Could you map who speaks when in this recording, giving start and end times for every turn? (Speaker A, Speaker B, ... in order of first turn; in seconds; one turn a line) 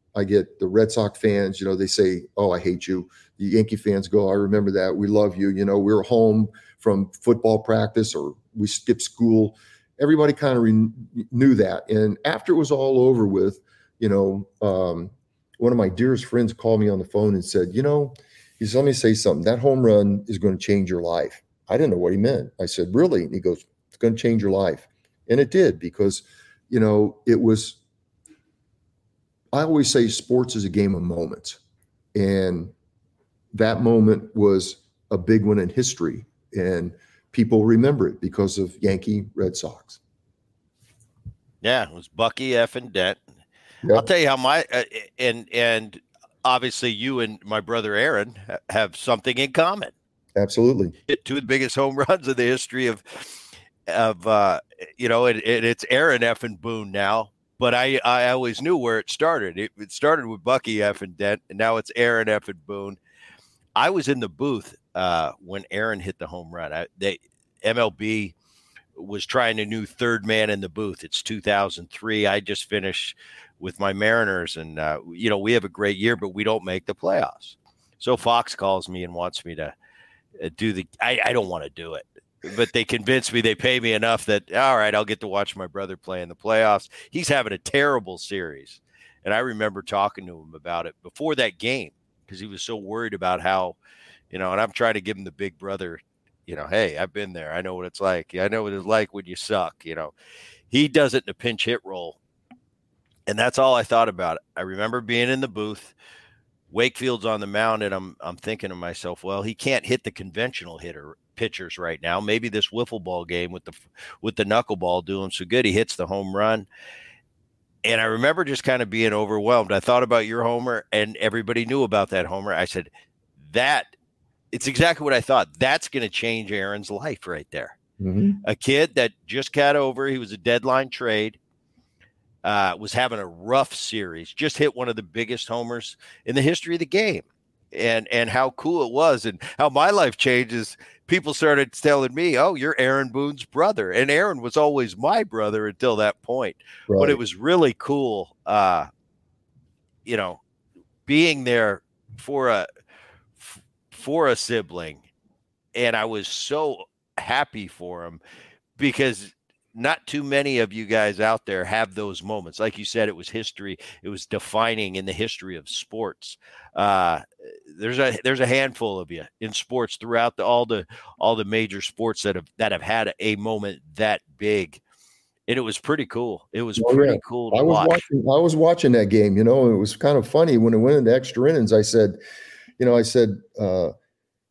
Speaker A: 0.1-27.8
Speaker A: 29.5-31.6
Speaker A: 32.1-32.7
Speaker A: 33.5-40.0
Speaker B: 41.6-43.2
Speaker B: 43.9-49.9
Speaker A: 50.4-51.0
Speaker B: 51.1-53.4
Speaker B: 53.9-63.0
Speaker B: 63.8-68.3
Speaker B: 69.0-79.7
Speaker B: 80.4-93.8
Speaker B: 94.3-100.1
Speaker B: 100.7-102.2
Speaker B: 103.3-106.0
Speaker B: 106.7-116.7
Speaker B: 117.8-122.9
Speaker B: 123.5-123.9
Speaker B: 124.5-127.8
Speaker A: 128.0-128.4
Speaker B: 128.4-131.4
Speaker B: 132.4-148.9
Speaker A: 146.9-147.2
Speaker B: 150.1-150.4
Speaker B: 151.1-152.7
Speaker B: 153.4-155.0
Speaker B: 155.8-158.2
Speaker B: 158.8-174.8
Speaker B: 175.5-178.0
Speaker A: 176.8-182.2
Speaker A: 182.8-183.9